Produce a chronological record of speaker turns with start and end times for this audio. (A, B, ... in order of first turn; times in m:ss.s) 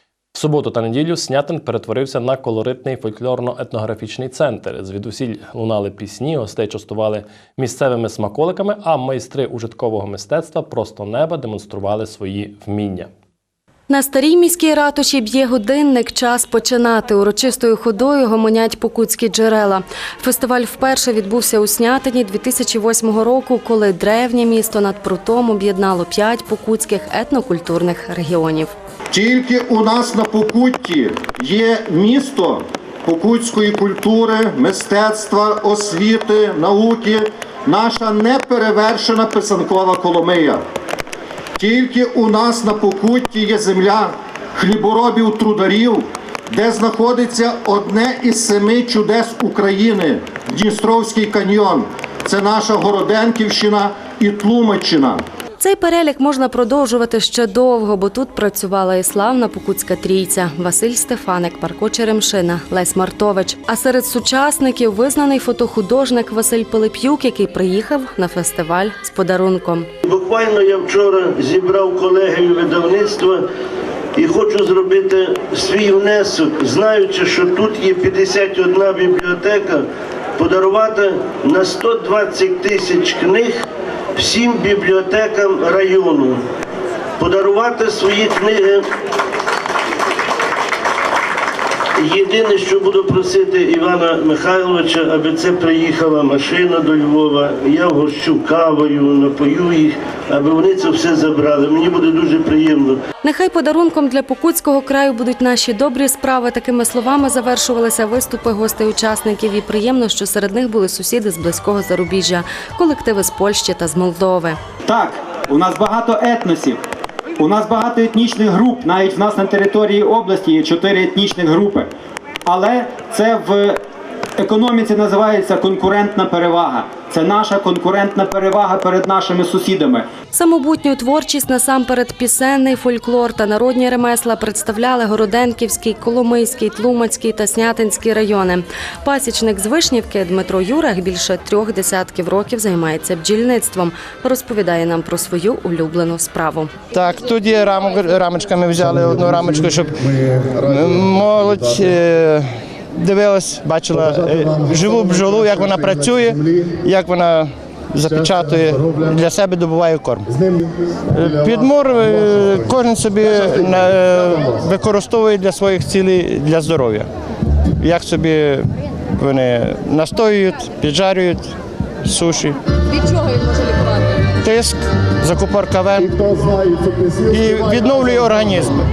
0:00.3-0:13.1 A
0:13.9-0:28.7 B
0:29.1-0:40.6 C
0:41.6-0:55.2 C
0:55.6-1:09.9 B
1:10.0-1:13.4 D
1:14.2-1:19.8 D
1:20.4-1:26.4 D
1:27.2-1:28.8 D
1:32.0-1:43.0 D
1:43.2-1:54.6 B
1:54.9-1:56.8 E
1:57.4-2:01.9 E
2:02.4-2:03.8 E
2:04.4-2:10.1 E
2:10.3-2:26.7 B
2:26.9-2:40.3 F
2:41.1-2:47.1 F
2:47.8-2:51.5 F
2:52.0-2:52.6 F
2:53.4-2:53.8 B
2:54.4-2:56.3 F
2:57.2-2:58.8 F